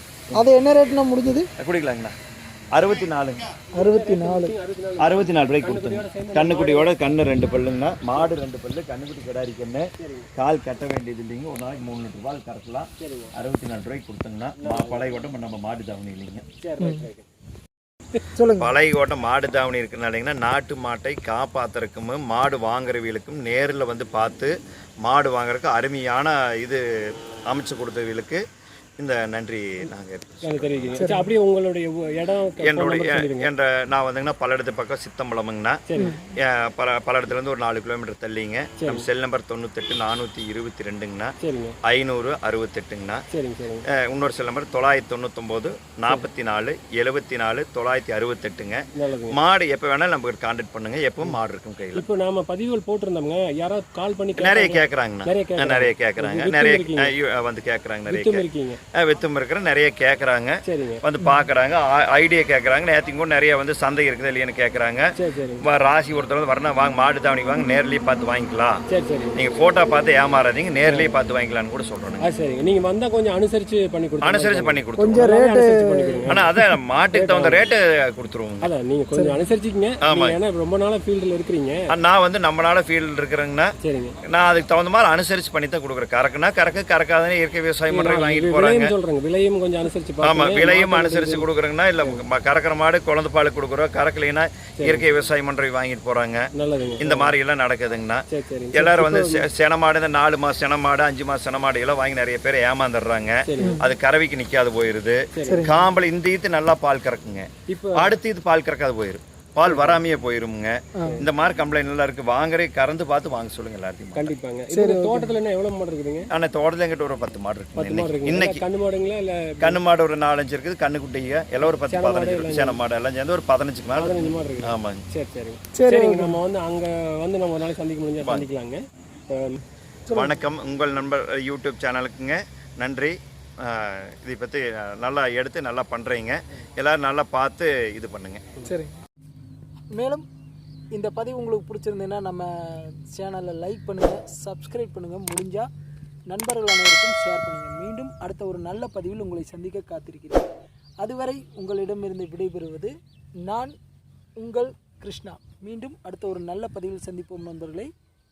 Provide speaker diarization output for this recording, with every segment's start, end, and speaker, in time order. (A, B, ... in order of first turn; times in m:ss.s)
0:00.3-0:01.5 A
0:01.6-0:02.1 B
0:02.7-0:03.5 B
0:03.7-0:06.9 C
0:03.8-0:04.5 A
0:05.0-0:16.4 B
0:10.0-0:10.3 C
0:13.0-0:13.3 C
0:14.6-0:15.2 C
0:16.6-0:17.3 C
0:16.8-0:17.1 A
0:18.4-0:18.7 A
0:18.6-0:26.8 B
0:27.5-0:28.4 B
0:29.0-0:31.1 B
0:30.4-0:33.5 C
0:31.0-0:31.3 A
0:32.6-0:35.8 B
0:35.9-0:36.2 C
0:36.4-0:41.3 B
0:38.8-0:39.1 C
0:41.4-0:41.8 C
0:41.8-0:43.2 B
0:43.3-0:43.8 C
0:43.9-0:52.0 B
0:49.0-0:49.4 C
0:52.0-0:57.1 C
0:54.4-0:58.4 B
0:58.1-0:58.8 C
0:59.0-1:05.1 B
1:00.6-1:01.0 C
1:05.2-1:05.6 C
1:05.6-1:08.8 B
1:08.9-1:09.4 C
1:09.4-1:12.3 B
1:10.9-1:11.1 C
1:12.2-1:16.5 C
1:14.2-1:15.3 B
1:15.0-1:16.6 A
1:16.3-1:18.7 B
1:17.1-1:17.6 C
1:18.6-1:21.9 C
1:19.1-1:19.4 A
1:20.0-1:20.4 B
1:21.9-1:23.7 B
1:23.8-1:24.2 C
1:24.3-1:28.9 B
1:27.9-1:31.5 C
1:30.2-1:38.2 B
1:34.8-1:35.1 C
1:36.6-1:37.4 C
1:38.3-1:39.5 C
1:38.8-1:54.4 B
1:43.4-1:43.8 C
1:43.6-1:43.9 A
1:45.3-1:45.7 C
1:45.5-1:45.8 A
1:47.7-1:48.2 C
1:49.6-1:50.0 C
1:51.0-1:51.2 A
1:51.0-1:51.3 C
1:54.2-1:56.3 C
1:54.7-1:55.3 A
1:56.3-1:58.6 B
1:57.8-1:59.8 C
1:59.6-2:05.0 B
2:01.6-2:02.8 C
2:03.9-2:09.6 C
2:05.7-2:06.4 A
2:08.2-2:08.5 B
2:10.1-2:18.4 B
2:18.6-2:18.9 A
2:20.0-2:20.2 A
2:20.9-2:25.7 A
2:26.3-2:30.5 A
2:31.0-2:32.9 A
2:33.4-2:33.7 A
2:34.4-2:37.9 A